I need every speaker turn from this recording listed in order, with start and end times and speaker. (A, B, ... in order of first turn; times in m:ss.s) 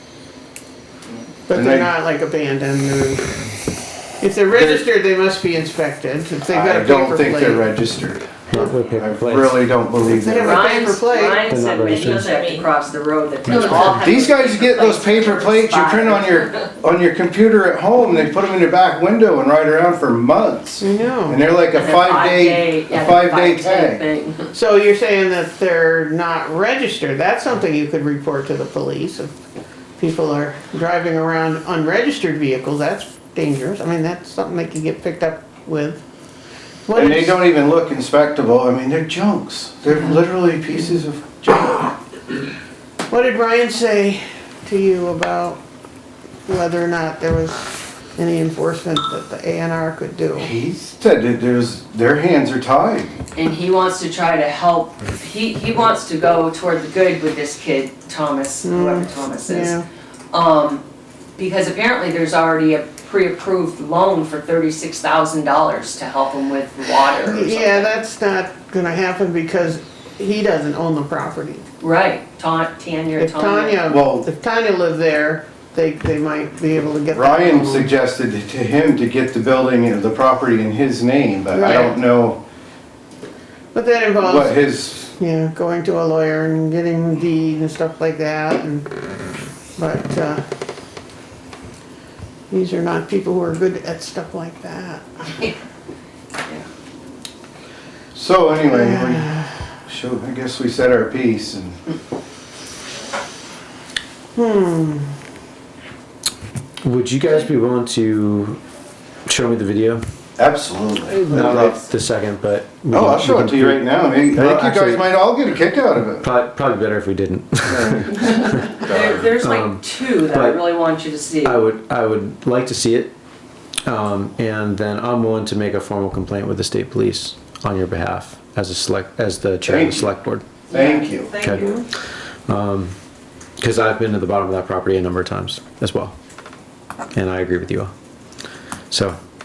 0:01.5-0:03.3 A
0:01.5-0:01.9 B
0:04.2-0:07.7 A
0:04.5-0:04.9 B
0:06.5-0:08.3 B
0:08.5-0:09.7 C
0:08.9-0:10.7 B
0:10.0-0:11.5 A
0:10.3-0:16.7 D
0:11.4-0:12.4 C
0:13.5-0:14.0 C
0:13.9-0:24.0 B
0:20.8-0:21.4 A
0:21.7-0:24.5 D
0:24.5-0:29.4 A
0:30.0-0:36.0 A
0:36.9-0:37.5 A
0:36.9-0:42.0 B
0:43.1-0:45.6 A
0:46.5-0:50.5 A
0:50.4-0:53.2 B
0:53.4-0:59.8 D
0:58.6-0:59.9 A
1:00.3-1:00.8 D
1:01.4-1:07.9 D
1:07.2-1:11.6 A
1:11.8-1:13.8 D
1:13.2-1:18.0 A
1:13.9-1:14.3 B
1:17.1-1:22.4 B
1:21.5-1:22.0 A
1:23.7-1:24.6 A
1:24.2-1:25.1 B
1:25.1-1:28.9 A
1:29.8-1:30.4 A
1:32.5-1:35.4 A
1:38.2-1:39.4 B
1:38.6-1:39.5 A
1:39.9-1:41.8 B
1:44.4-1:45.2 A
1:46.8-1:48.6 C
1:49.3-1:50.0 C
1:50.4-1:51.8 B
1:51.1-1:55.3 C
1:52.9-1:56.3 B
1:56.2-1:58.7 C
1:57.7-1:59.3 B
1:58.2-2:01.7 D
1:59.4-2:00.6 C
2:01.4-2:03.2 C
2:03.9-2:10.5 C
2:09.7-2:10.1 B
2:10.7-2:11.3 B
2:10.7-2:11.8 D
2:11.4-2:11.7 C
2:12.5-2:12.9 C
2:13.6-2:16.1 C
2:17.1-2:17.9 C
2:18.9-2:19.2 C